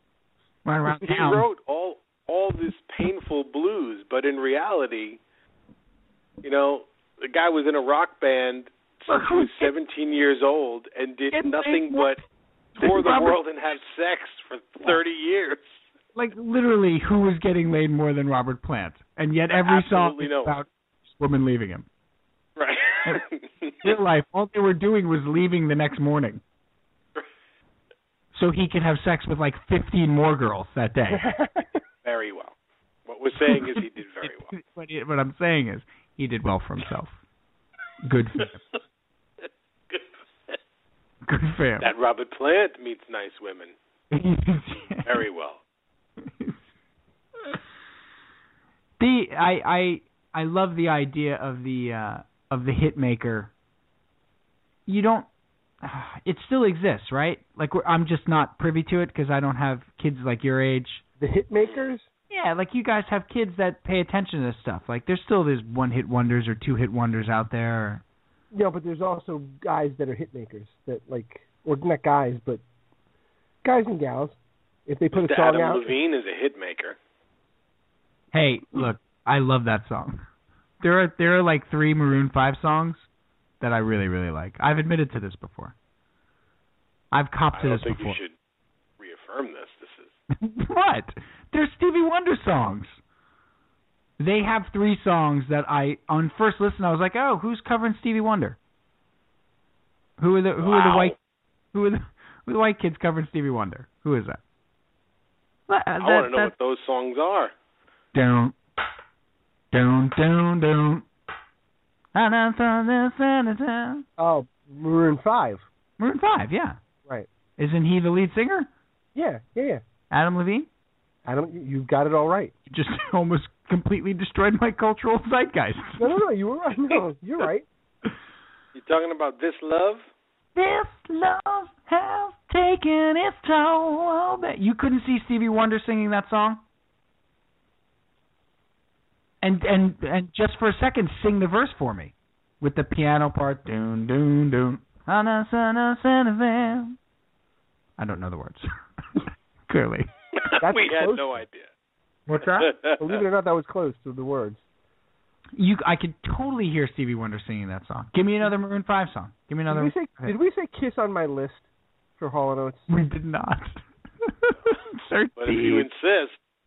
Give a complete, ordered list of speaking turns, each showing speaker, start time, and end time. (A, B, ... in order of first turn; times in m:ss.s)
0:00.6-0:01.4 A
0:00.9-0:05.2 B
0:06.4-0:12.2 B
0:09.1-0:09.7 A
0:11.3-0:12.2 A
0:12.8-0:13.4 A
0:12.8-0:15.7 B
0:16.1-0:21.8 A
0:19.5-0:20.6 B
0:22.6-0:23.9 B
0:23.8-0:26.4 A
0:28.3-0:31.3 A
0:31.1-0:31.8 C
0:32.0-0:32.5 B
0:33.0-0:34.5 B
0:33.4-0:37.2 A
0:38.0-0:38.6 A
0:39.9-0:40.6 B
0:41.2-0:41.9 A
0:41.8-0:43.7 B
0:44.1-0:45.2 A
0:45.0-0:45.6 B
0:46.2-0:46.6 A
0:49.0-0:53.5 A
0:54.9-0:55.3 A
0:55.8-1:01.0 A
1:01.2-1:02.1 C
1:01.6-1:01.9 B
1:02.3-1:08.0 A
1:08.5-1:12.6 C
1:13.6-1:15.9 C
1:15.1-1:17.0 B
1:18.3-1:20.2 A
1:20.8-1:23.1 A
1:23.6-1:25.7 A
1:27.1-1:28.2 A
1:27.6-1:28.3 B
1:29.0-1:30.1 B
1:30.3-1:33.0 A
1:34.2-1:38.6 A
1:40.2-1:41.2 A
1:40.6-1:41.2 B
1:41.7-1:44.4 A
1:45.7-1:46.5 A
1:46.0-1:47.5 B
1:48.1-1:48.6 A
1:49.7-1:51.1 A
1:52.1-1:54.0 A
1:54.2-1:55.6 C
1:56.0-1:56.8 A
1:57.6-1:58.7 A
1:59.1-1:59.8 C
2:00.1-2:00.7 A
2:01.2-2:02.5 C
2:02.7-2:06.2 A
2:06.0-2:07.7 C
2:08.7-2:10.0 B
2:10.5-2:16.6 A
2:19.4-2:27.0 A
2:28.0-2:30.1 A
2:30.4-2:31.7 B
2:30.6-2:31.4 C
2:32.3-2:32.7 A
2:32.6-2:33.1 B
2:33.0-2:34.6 C
2:35.6-2:40.3 A
2:39.7-2:41.6 C
2:42.2-2:42.9 C
2:42.9-2:45.9 A
2:45.4-2:46.4 B